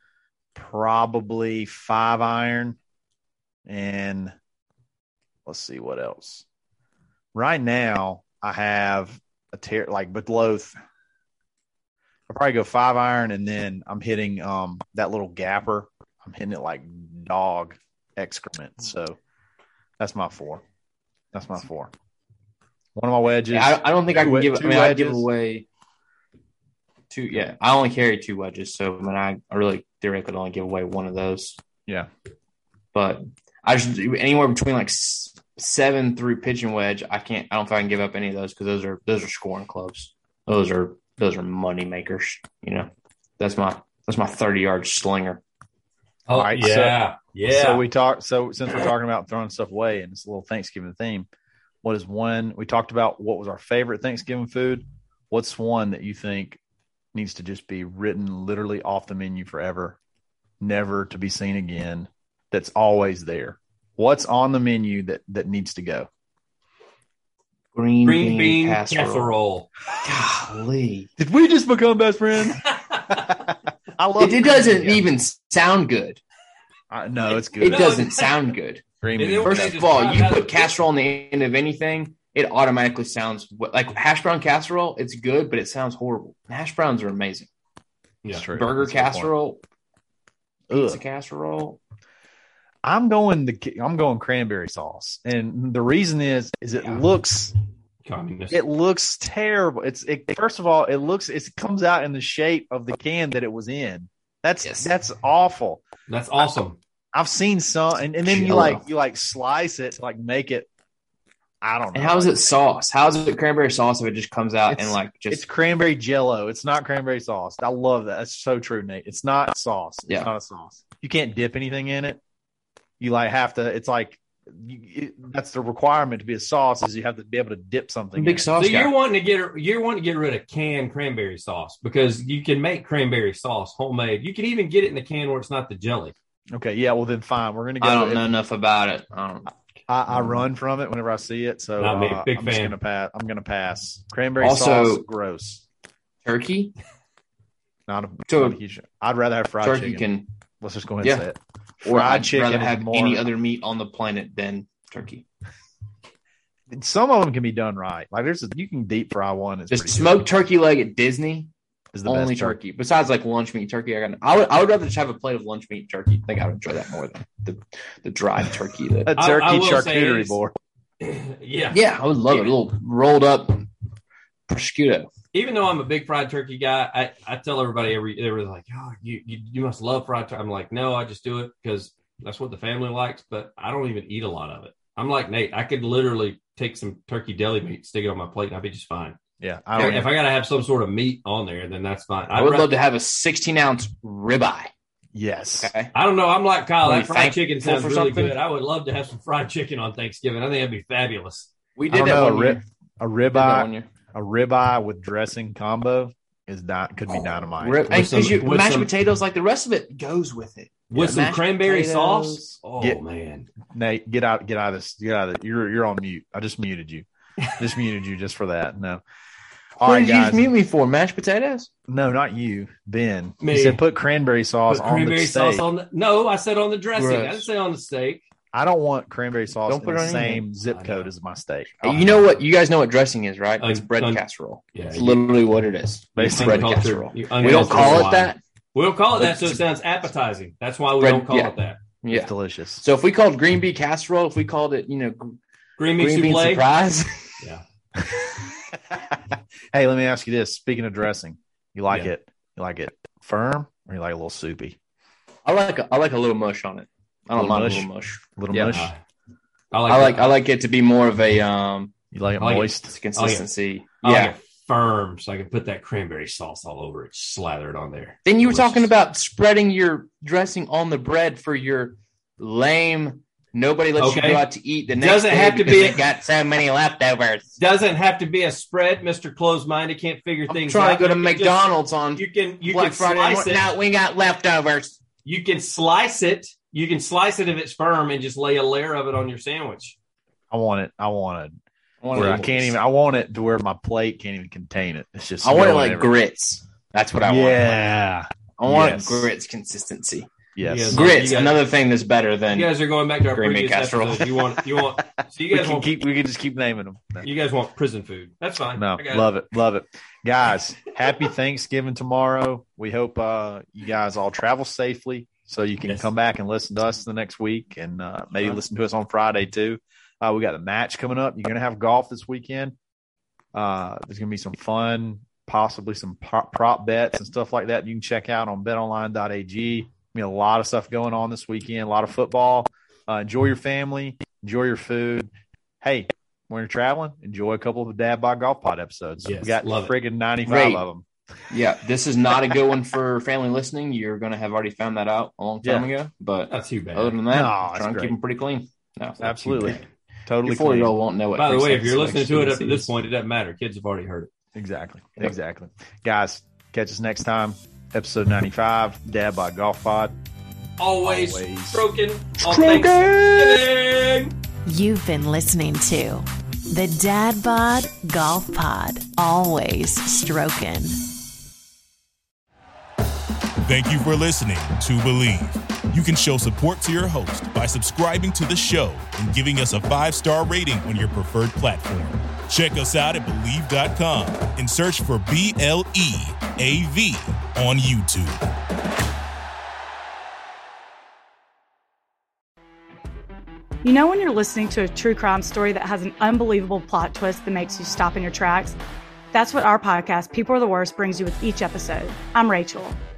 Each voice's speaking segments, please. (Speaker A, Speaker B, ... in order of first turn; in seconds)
Speaker A: 0.5-2.8, 3.6-4.3, 5.5-6.4, 7.3-10.8, 12.3-19.2, 20.0-20.6, 21.3-21.9, 22.9-25.3, 46.3-51.3, 51.8-56.6, 57.1-60.0, 60.6-66.1, 71.2-75.0, 76.9-77.9, 79.0-79.7, 88.3-89.3, 90.7-91.0, 92.8-97.5, 98.5-105.8, 107.1-110.7, 111.6-112.3, 114.7-122.2, 123.0-128.5, 136.5-138.2, 139.9-145.6, 147.9-150.0, 150.6-153.2, 156.7-160.2, 161.9-162.6, 169.1-170.5, 189.4-190.1, 195.1-195.7, 201.9-207.9, 213.7-217.1, 217.6-219.0, 219.8-220.5, 221.9-225.6, 228.5-232.2, 236.1-236.9, 237.4-238.0, 242.1-242.8, 248.0-248.3, 248.9-254.8, 257.4-258.9, 262.1-262.9, 290.5-291.6, 292.1-296.1, 297.2-299.3, 300.6-301.1, 305.5-307.3, 308.7-322.7, 323.5-335.3, 335.8-341.1, 345.6-345.9, 347.3-348.1, 349.2-350.9, 354.5-360.1, 361.0-361.8
Speaker B: 23.5-25.6, 27.1-31.6, 32.9-45.4, 67.7-69.3, 70.0-71.1, 74.2-76.2, 77.6-78.8, 79.5-87.5, 88.5-89.6, 90.7-91.8, 104.6-104.9, 108.2-108.8, 111.9-115.4, 128.2-128.9, 137.8-139.5, 140.1-140.4, 144.4-145.0, 146.2-146.7, 148.3-148.6, 149.6-150.3, 151.0-151.3, 151.8-155.2, 159.7-161.5, 162.1-169.1, 171.7-173.7, 174.5-175.1, 192.3-194.7, 195.6-195.9, 196.8-198.3, 201.8-202.6, 203.3-203.9, 207.6-212.6, 219.8-221.7, 227.0-227.4, 229.7-230.4, 231.8-238.4, 239.2-239.6, 241.0-245.4, 245.9-247.4, 255.4-258.8, 259.9-262.0, 262.7-264.3, 268.2-277.5, 280.5-285.0, 292.0-292.8, 295.4-297.9, 298.6-300.3, 300.9-302.7, 303.2-304.6, 340.5-340.8, 341.5-349.9, 350.4-352.9, 362.4-363.6
Speaker C: 46.3-47.8, 68.0-69.7, 72.7-73.2, 77.6-78.3, 79.2-80.7, 98.0-98.6, 106.1-106.8, 128.6-136.1, 141.8-142.8, 169.2-170.4, 171.0-172.5, 175.3-189.2, 189.8-192.7, 195.9-201.5, 207.9-208.9, 210.9-213.5, 223.4-223.8, 224.7-228.2, 230.7-231.1, 233.6-234.2, 234.7-235.2, 236.3-241.8, 245.8-246.6, 258.7-259.0, 259.7-260.3, 262.4-263.4, 264.0-268.9, 274.0-274.4, 275.0-276.0, 277.6-283.7, 285.2-289.9, 300.6-301.6, 302.5-305.9, 307.2-309.3, 339.2-339.9, 346.5-347.2, 351.4-354.3, 360.8-364.3
Speaker D: 364.6-371.0
Speaker E: 373.6-388.4
Speaker F: 393.8-398.8, 399.3-403.0